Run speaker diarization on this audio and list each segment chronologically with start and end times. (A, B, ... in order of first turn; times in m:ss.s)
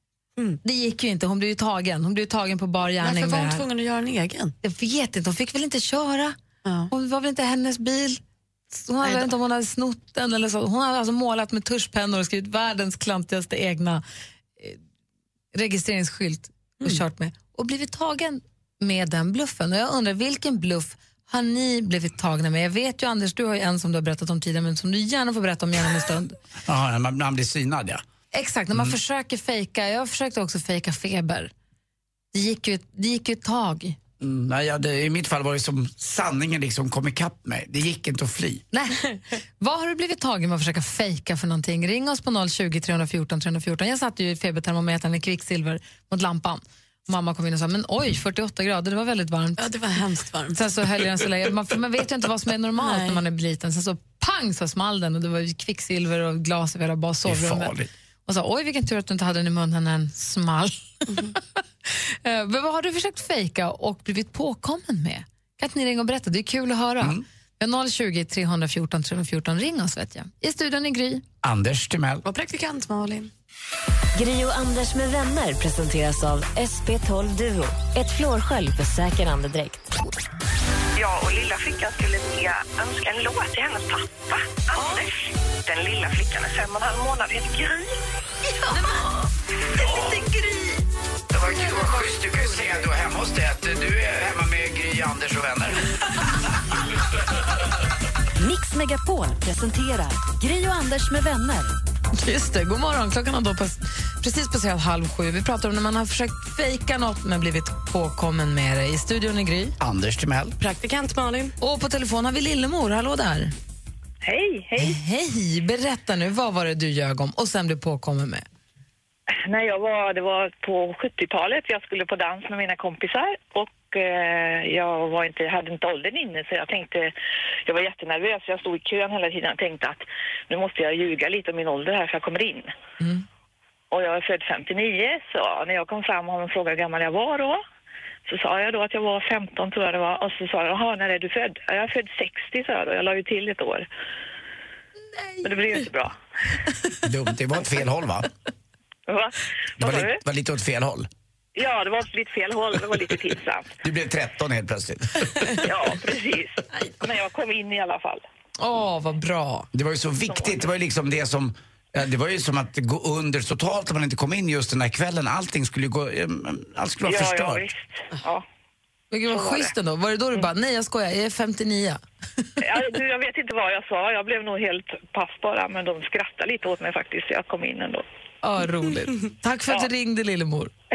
0:00.6-0:03.6 A
0:03.0-0:04.5 B
0:04.6-0:06.4 A
0:06.6-0:06.9 B
0:06.9-0:14.0 A
0:15.5-0:26.4 A
0:26.7-0:28.0 C
0:28.3-0:31.5 A
0:32.3-0:34.0 A
0:34.2-0:38.6 C
0:38.7-0:39.0 A
0:39.6-0:49.6 A
0:49.6-0:50.6 B
0:50.5-0:57.7 A
0:52.8-0:53.2 B
0:57.2-0:57.9 C
0:58.3-1:11.2 A
1:11.4-1:12.2 C
1:12.2-1:13.3 B
1:14.2-1:19.9 D
1:21.0-1:25.1 E
1:25.7-1:27.8 E
1:28.6-1:29.1 A
1:29.8-1:30.8 A
1:31.3-1:35.9 C
1:38.4-1:41.8 D
1:42.2-1:49.8 A
1:49.8-1:50.6 C
1:50.6-1:51.6 B
1:51.6-1:53.5 A
1:54.2-1:55.0 E
1:54.8-1:58.4 A
1:59.5-2:07.1 E
2:07.7-2:12.7 E
2:13.9-2:17.6 E
2:18.3-2:23.9 E
2:25.4-2:26.2 E
2:27.0-2:28.3 C
2:29.1-2:30.2 E
2:29.8-2:31.1 C
2:31.6-2:33.7 E
2:33.8-2:35.7 C
2:35.6-2:38.2 E
2:38.6-2:39.7 A
2:39.7-2:47.7 C
2:47.0-2:48.4 E
2:49.1-2:52.0 A
2:49.3-2:49.7 E
2:52.6-2:58.0 E
2:58.4-3:00.7 A